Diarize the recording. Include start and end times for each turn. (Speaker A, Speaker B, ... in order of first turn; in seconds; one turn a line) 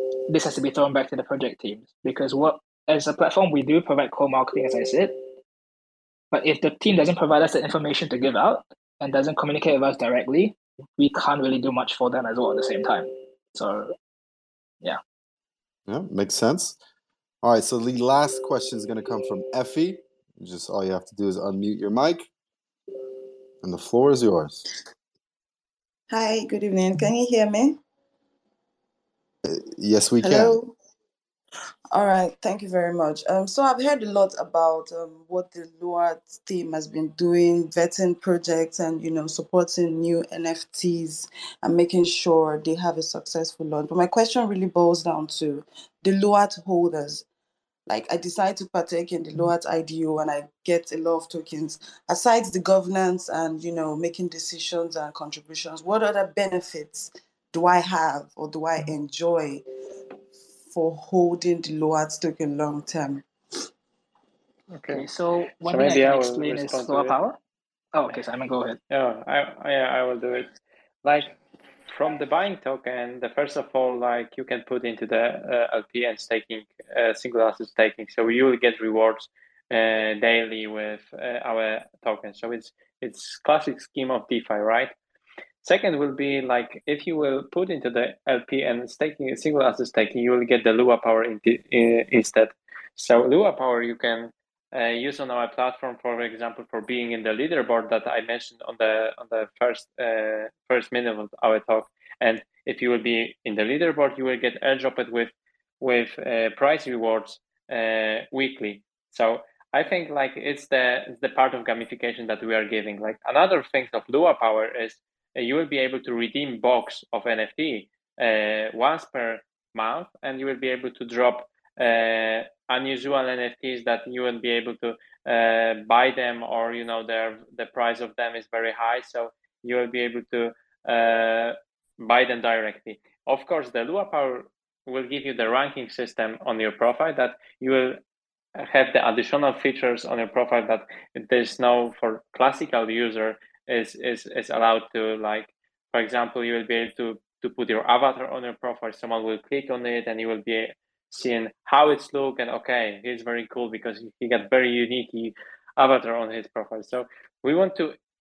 Speaker A: 0.3-5.2
Speaker A: 6.3-13.9
Speaker B: 15.9-16.8
Speaker B: 17.4-22.3
Speaker B: 23.6-24.6
Speaker C: 26.1-27.8
Speaker B: 29.4-30.6
Speaker C: 30.2-30.7
Speaker C: 31.9-47.2
Speaker C: 47.9-59.6
Speaker C: 60.7-63.2
Speaker D: 64.7-65.0
Speaker A: 64.9-67.4
Speaker D: 65.6-67.1
Speaker A: 67.9-68.8
Speaker D: 68.9-70.5
Speaker D: 71.0-71.3
Speaker D: 71.9-84.9
Speaker D: 85.6-138.0
Speaker D: 138.6-157.9